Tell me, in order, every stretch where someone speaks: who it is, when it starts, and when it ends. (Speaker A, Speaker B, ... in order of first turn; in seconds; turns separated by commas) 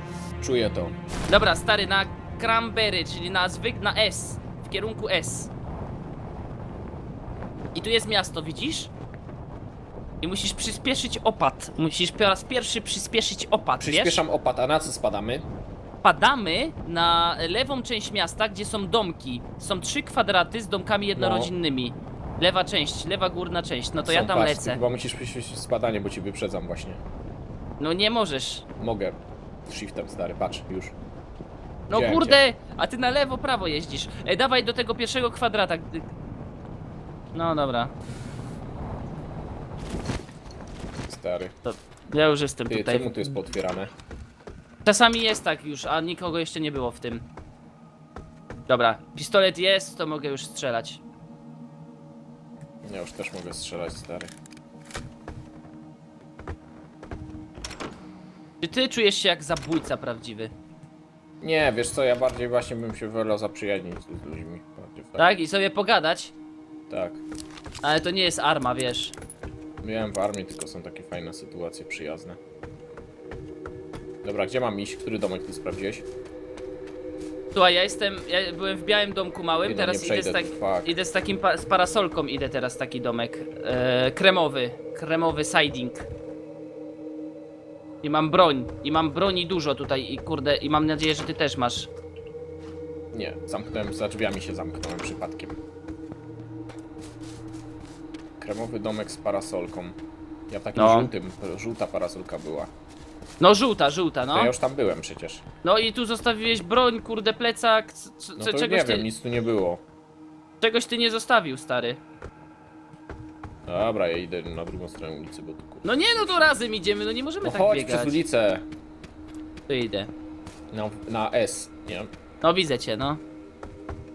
Speaker A: 0.4-1.0, Speaker B: 1.3-5.5, Speaker B: 7.7-8.9, Speaker B: 10.2-14.2, Speaker A: 13.8-15.5, Speaker B: 16.0-24.8, Speaker A: 21.1-21.5, Speaker A: 24.0-27.0, Speaker B: 27.8-28.6, Speaker A: 28.8-30.9, Speaker B: 31.9-36.1, Speaker A: 31.9-32.4, Speaker B: 37.3-37.9, Speaker A: 41.1-41.5, Speaker B: 41.6-43.4, Speaker A: 42.7-43.9, Speaker B: 44.8-47.2, Speaker B: 48.7-51.0, Speaker A: 52.8-54.3, Speaker B: 58.6-60.5, Speaker A: 61.4-65.2, Speaker B: 65.2-66.3, Speaker A: 66.9-67.2, Speaker B: 67.8-69.1, Speaker A: 69.8-72.4, Speaker A: 74.2-76.0, Speaker B: 77.5-86.1, Speaker A: 79.6-80.9, Speaker B: 88.0-91.9, Speaker A: 93.1-95.6, Speaker A: 98.4-100.0, Speaker A: 100.5-102.7, Speaker B: 100.8-101.1, Speaker B: 103.4-104.5, Speaker A: 104.3-105.4, Speaker B: 105.6-109.0, Speaker A: 108.4-109.8, Speaker B: 110.6-112.0, Speaker A: 113.7-116.0, Speaker B: 115.8-118.2, Speaker A: 117.4-118.7, Speaker B: 119.7-120.1, Speaker A: 120.7-122.1, Speaker B: 122.4-123.2